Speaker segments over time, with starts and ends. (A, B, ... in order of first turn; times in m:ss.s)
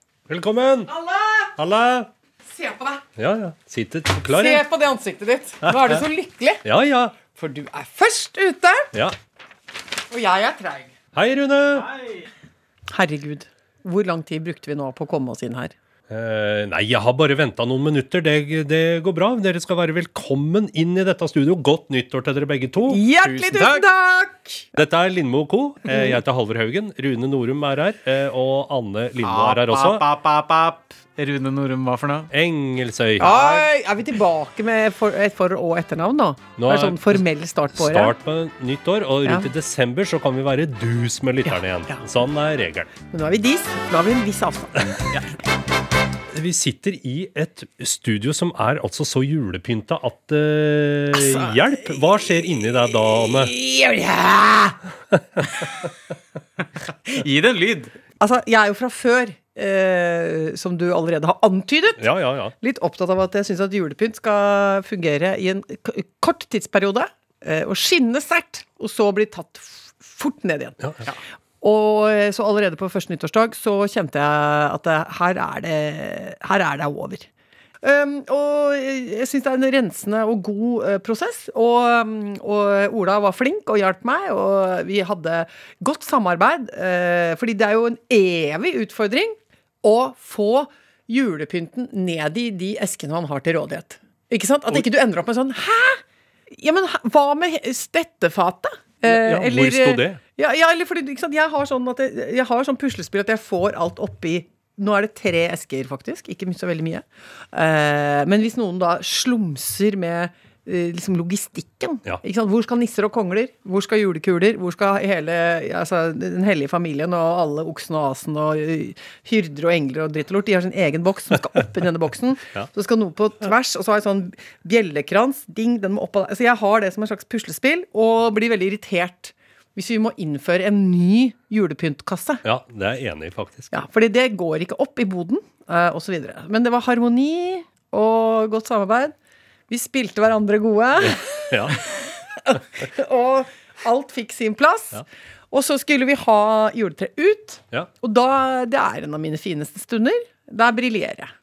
0:00.3-0:00.9 A
0:00.9-0:01.5 B
0:01.6-0:02.1 A
0:02.5-0:03.0 B
0:03.2-0:04.6 A
0:04.3-0:06.6 B
0:05.7-0:06.0 A
0:06.6-0:07.2 A
0:07.4-0:09.0 B
0:10.1-0:10.9 B
0:11.1-0:11.9 A
0:12.9-0:15.7 B
0:16.1-0:23.0 A
0:22.9-0:24.7 B
0:23.2-0:23.8 C
0:24.8-0:30.0 A
0:25.9-0:26.2 B
0:29.2-0:32.3 C
0:32.3-0:33.4 A
0:33.2-0:38.1 B
0:33.3-0:33.7 C
0:36.6-0:42.9 A
0:41.5-0:42.0 B
0:43.1-0:45.2 B
0:46.3-0:53.5 A
0:51.1-0:52.0 B
0:53.1-0:54.8 B
0:55.1-0:55.5 A
0:57.1-0:57.9 C
0:58.2-1:10.8 B
1:02.0-1:02.5 A
1:11.6-1:17.3 B
1:17.8-2:12.4 B
1:39.0-1:40.2 A
2:12.4-2:13.7 A
2:13.7-2:19.2 B
2:19.7-2:31.3 B
2:21.5-2:21.8 A